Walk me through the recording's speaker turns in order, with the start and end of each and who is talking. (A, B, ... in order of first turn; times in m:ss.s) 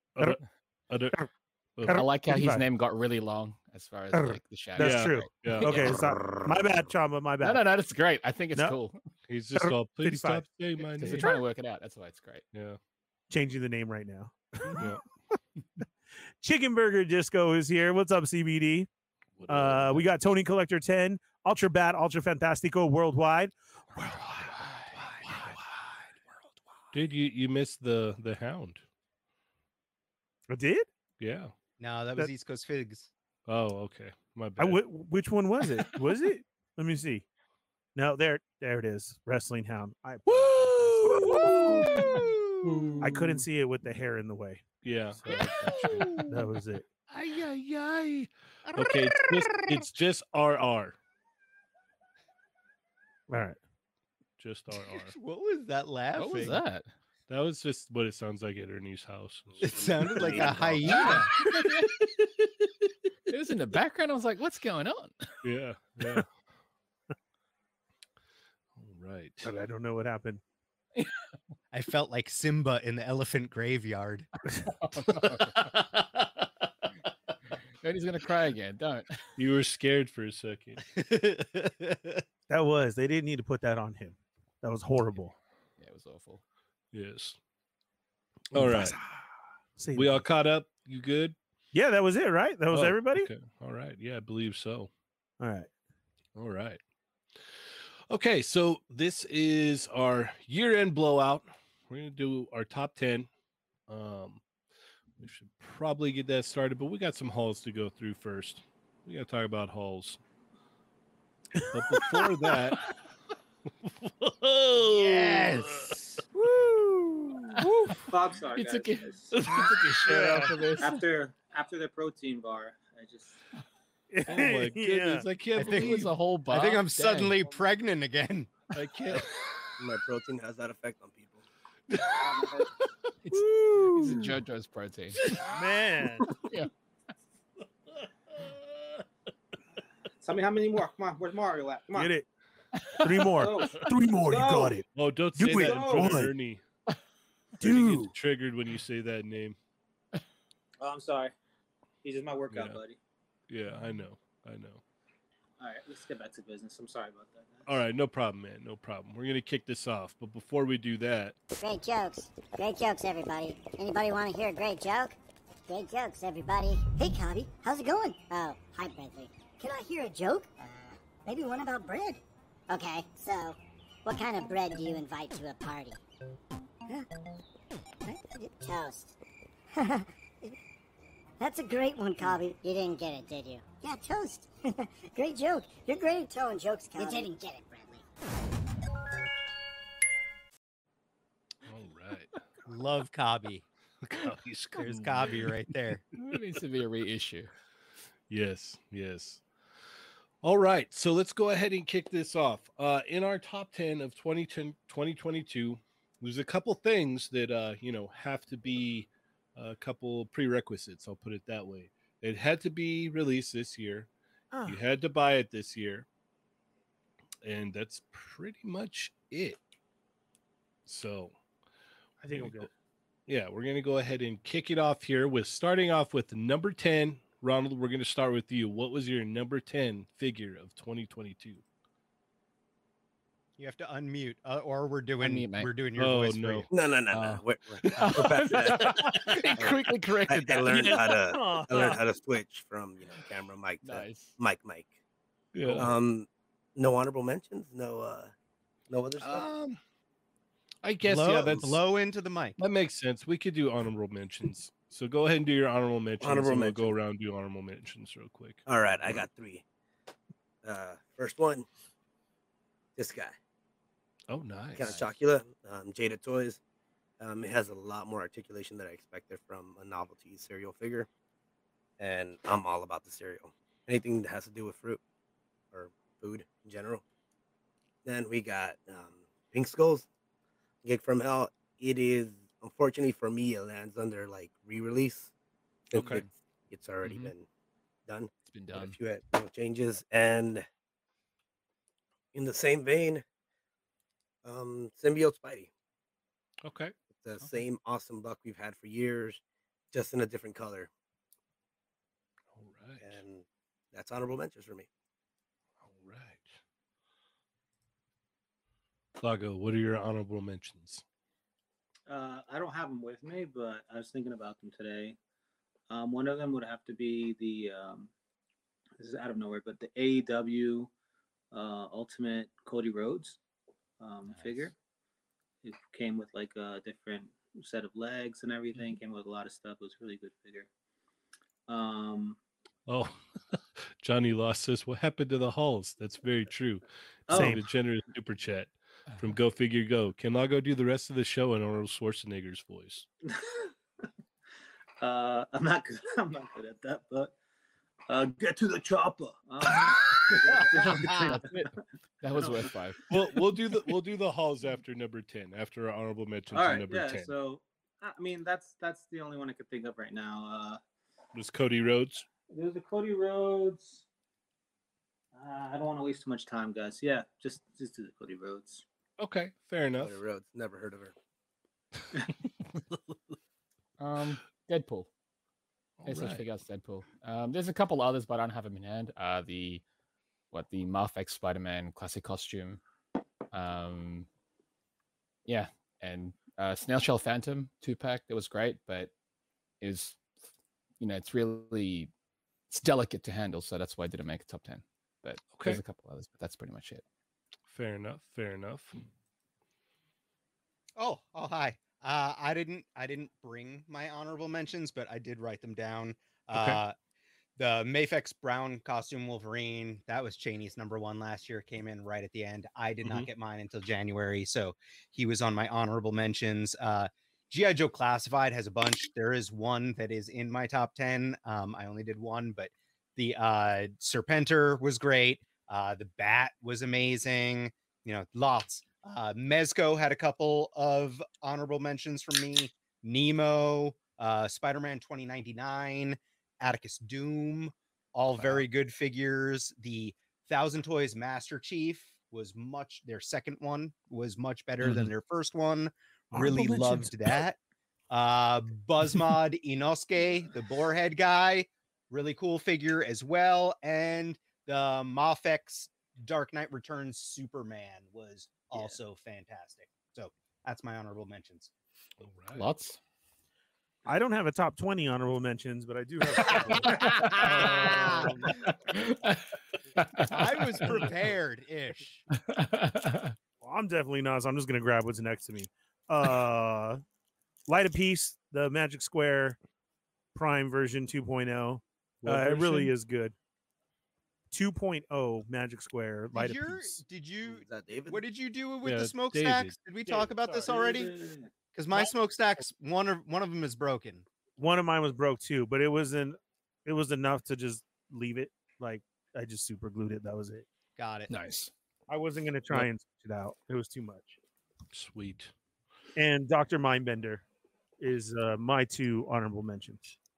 0:00.2-0:01.2 A
0:01.8-0:02.0 A
0:01.8-0:02.6 B
0:01.9-0:06.0 C
0:04.1-0:07.6 B
0:04.8-0:06.0 A
0:07.4-0:09.0 C
0:09.3-0:11.3 A
0:09.6-0:10.4 B
0:11.0-0:12.4 C
0:12.5-0:12.8 A
0:13.3-0:15.0 B
0:14.8-0:15.0 A
0:16.4-0:18.9 B
0:19.4-0:20.1 A
0:19.5-0:24.8 B
0:25.1-0:25.6 A
0:26.9-0:28.8 A
0:30.5-0:30.9 B
0:31.2-0:31.5 A
0:31.8-0:33.1 D
0:33.5-0:34.8 A
0:34.6-0:37.2 B
0:37.9-0:42.2 B
0:41.0-0:42.9 D
0:41.2-0:41.8 A
0:42.9-0:43.3 A
0:43.0-0:44.6 B
0:44.8-0:46.2 A
0:45.2-0:46.8 B
0:47.1-0:51.0 A
0:48.7-0:49.8 D
0:53.3-0:53.6 B
0:54.4-0:55.1 A
0:55.0-0:56.6 D
0:56.1-0:56.9 C
0:57.3-1:00.6 A
0:59.6-1:00.9 E
0:59.6-1:01.3 D
1:00.8-1:01.9 C
1:03.3-1:05.1 C
1:05.4-1:06.3 A
1:08.8-1:09.5 A
1:09.4-1:10.4 B
1:11.7-1:14.3 D
1:14.7-1:15.7 C
1:17.8-1:19.2 C
1:19.4-1:20.8 A
1:20.9-1:22.2 D
1:22.5-1:25.3 B
1:25.8-1:26.4 C
1:26.9-1:27.4 A
1:28.5-1:29.0 A
1:28.5-1:29.2 B
1:29.8-1:30.2 B
1:29.9-1:31.4 A
1:31.7-1:33.3 B
1:32.7-1:34.9 A
1:35.4-1:35.7 B
1:36.4-1:36.8 A
1:38.1-1:43.3 A
1:43.9-1:44.4 A
1:45.2-1:50.2 A
1:51.7-1:52.9 A
1:53.8-1:56.0 A
1:54.8-1:56.0 D
1:56.3-1:58.0 B
1:58.1-1:59.3 F
1:58.5-2:01.0 C
1:59.3-2:00.0 A
2:00.0-2:00.5 B
2:00.8-2:03.4 F
2:04.1-2:05.2 B
2:04.3-2:06.1 A
2:05.5-2:08.5 D
2:05.6-2:07.4 C
2:08.7-2:09.3 A
2:09.8-2:11.4 E
2:12.1-2:12.7 F
2:13.2-2:15.2 C
2:13.3-2:14.4 B
2:15.4-2:16.4 B
2:16.4-2:16.7 C
2:18.3-2:19.0 A
2:20.2-2:22.1 F
2:21.9-2:22.2 B
2:23.0-2:24.8 B
2:23.3-2:24.8 F
2:24.9-2:26.6 A
2:25.4-2:26.3 B
2:25.5-2:26.3 F
2:27.6-2:29.6 A
2:27.6-2:28.1 B
2:30.8-2:31.3 F
2:32.0-2:33.0 F
2:32.5-2:32.8 A
2:33.5-2:34.8 A
2:35.6-2:37.7 F
2:37.7-2:41.3 A
2:41.6-2:45.1 G
2:45.7-2:50.5 G
2:51.2-2:56.0 G
2:58.0-2:59.1 G
2:59.7-3:00.5 G
3:01.4-3:08.0 G
3:11.6-3:12.4 A
3:12.6-3:13.6 D
3:14.0-3:15.5 A
3:14.7-3:16.0 D
3:16.2-3:17.5 C
3:18.3-3:19.4 A
3:20.4-3:34.1 A
3:34.5-3:34.8 B
3:34.6-3:36.0 A
3:37.4-3:39.6 A
3:40.8-3:41.3 A
3:42.2-3:42.7 B
3:42.3-3:42.6 A
3:43.3-3:51.6 A
3:53.6-3:56.7 D
3:55.2-3:55.7 C
3:56.0-3:56.7 A
3:56.7-4:04.9 E
3:57.1-4:01.2 C
3:59.0-3:59.5 A
4:01.1-4:02.0 B
4:03.8-4:04.3 C
4:05.5-4:05.9 A
4:05.6-4:05.9 C
4:05.8-4:08.3 E
4:08.9-4:09.5 E
4:09.2-4:09.8 A
4:10.8-4:11.8 A
4:11.0-4:12.6 D
4:12.6-4:18.6 A
4:16.2-4:17.0 E
4:18.6-4:19.6 E
4:20.6-4:21.6 E
4:23.0-4:23.3 E
4:24.3-4:25.0 A
4:24.7-4:26.6 E
4:24.8-4:25.1 C
4:27.2-4:31.1 E
4:32.0-4:35.0 E
4:35.7-4:37.0 E
4:38.0-4:40.1 E
4:40.8-4:45.3 E
4:45.9-4:47.4 E
4:45.9-4:46.2 A
4:47.0-4:47.3 C
4:48.1-4:50.6 E
4:48.5-4:49.0 C
4:52.3-4:53.2 E
4:54.4-4:55.7 E
4:56.6-4:56.9 A
4:57.1-4:59.4 E
4:59.9-5:00.9 E
5:02.5-5:03.2 A
5:03.0-5:04.9 E
5:05.8-5:06.6 A
5:09.2-5:11.0 A
5:12.1-5:15.2 F
5:15.9-5:18.1 F
5:19.0-5:20.9 F
5:21.5-5:23.4 F
5:24.0-5:24.7 F
5:25.6-5:30.7 F
5:31.7-5:32.4 F
5:32.9-5:33.2 A
5:34.0-5:43.1 A
5:37.3-5:37.6 F
5:37.3-5:37.6 B
5:43.3-5:43.7 F
5:45.0-5:47.3 F
5:48.1-5:51.4 F
5:50.8-5:51.3 D
5:50.9-5:51.7 C
5:52.2-5:53.0 C
5:52.4-5:52.7 F
5:53.1-5:57.3 A
5:56.5-6:00.8 F
6:01.3-6:02.2 A
6:02.5-6:04.0 F
6:05.3-6:08.8 F
6:09.2-6:10.2 A
6:10.0-6:11.1 E
6:14.0-6:15.1 C
6:16.0-6:16.4 A
6:16.0-6:19.8 C
6:20.5-6:22.8 C
6:23.5-6:24.3 C
6:25.4-6:29.1 C
6:29.8-6:30.2 C
6:31.0-6:32.1 C
6:32.7-6:37.0 C
6:35.5-6:35.8 A
6:37.7-6:38.9 A
6:41.0-6:46.9 D
6:46.5-6:46.8 A
6:47.6-7:27.6 D
6:53.0-6:53.3 A
7:26.3-7:27.1 B
7:28.1-7:41.7 D
7:42.2-7:42.7 A
7:42.5-7:43.0 C
7:44.0-7:48.6 B
7:46.8-7:49.4 C
7:47.5-7:48.5 D
7:50.0-7:51.0 C
7:50.2-7:52.2 D
7:52.3-7:53.3 C
7:53.6-7:57.0 B
7:57.7-7:59.6 B
8:00.3-8:03.3 B
8:02.2-8:02.9 A
8:04.5-8:07.0 B
8:06.3-8:11.1 D
8:07.4-8:08.2 E
8:08.8-8:09.8 A
8:10.1-8:10.7 B
8:10.6-8:11.5 F
8:11.7-8:14.2 D
8:14.6-8:20.6 B
8:21.0-8:21.3 D
8:21.3-8:21.7 C
8:22.1-8:24.4 B
8:24.9-8:25.5 A
8:26.2-8:27.4 B
8:28.0-8:30.1 B